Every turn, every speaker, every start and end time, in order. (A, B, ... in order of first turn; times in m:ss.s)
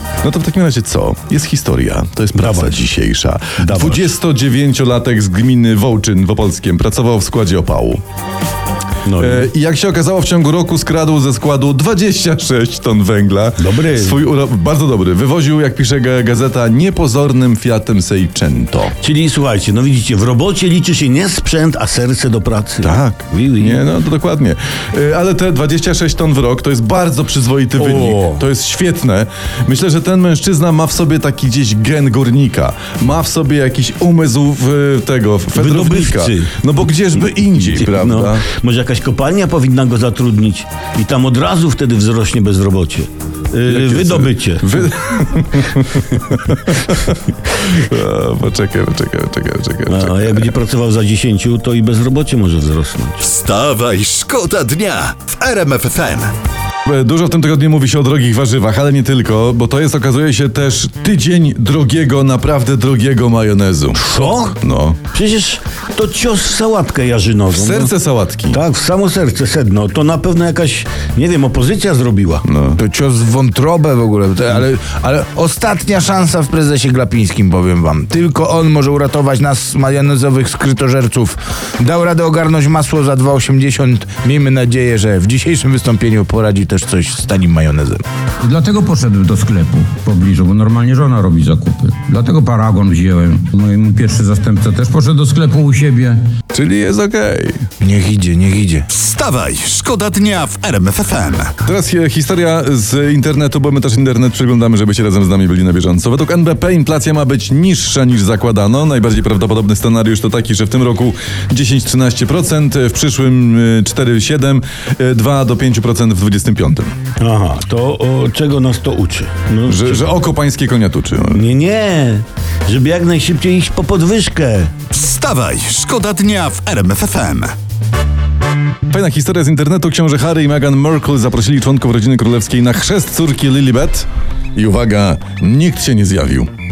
0:00.2-0:08.0 A
0:02.4-0:02.8 B
0:03.6-0:04.1 B
0:09.0-0:09.5 B
0:09.1-0:18.9 A
0:13.6-0:14.2 B
0:19.0-0:23.8 B
0:22.8-0:38.5 A
0:27.8-0:28.4 B
0:35.5-0:36.5 B
0:37.5-0:44.8 B
0:43.6-0:50.6 A
0:49.9-0:53.2 B
0:53.2-0:56.3 C
0:56.8-1:05.0 A
1:03.9-1:07.9 B
1:07.5-1:08.6 A
1:08.5-1:12.4 B
1:12.4-1:12.8 A
1:12.8-1:28.0 D
1:28.4-1:36.2 E
1:36.5-1:37.6 A
1:37.8-1:38.9 D
1:38.9-1:41.5 C
1:41.6-1:56.9 A
1:57.2-2:00.1 B
1:59.6-2:01.5 A
2:01.3-2:04.7 B
2:04.9-2:07.5 C
2:08.9-2:16.5 A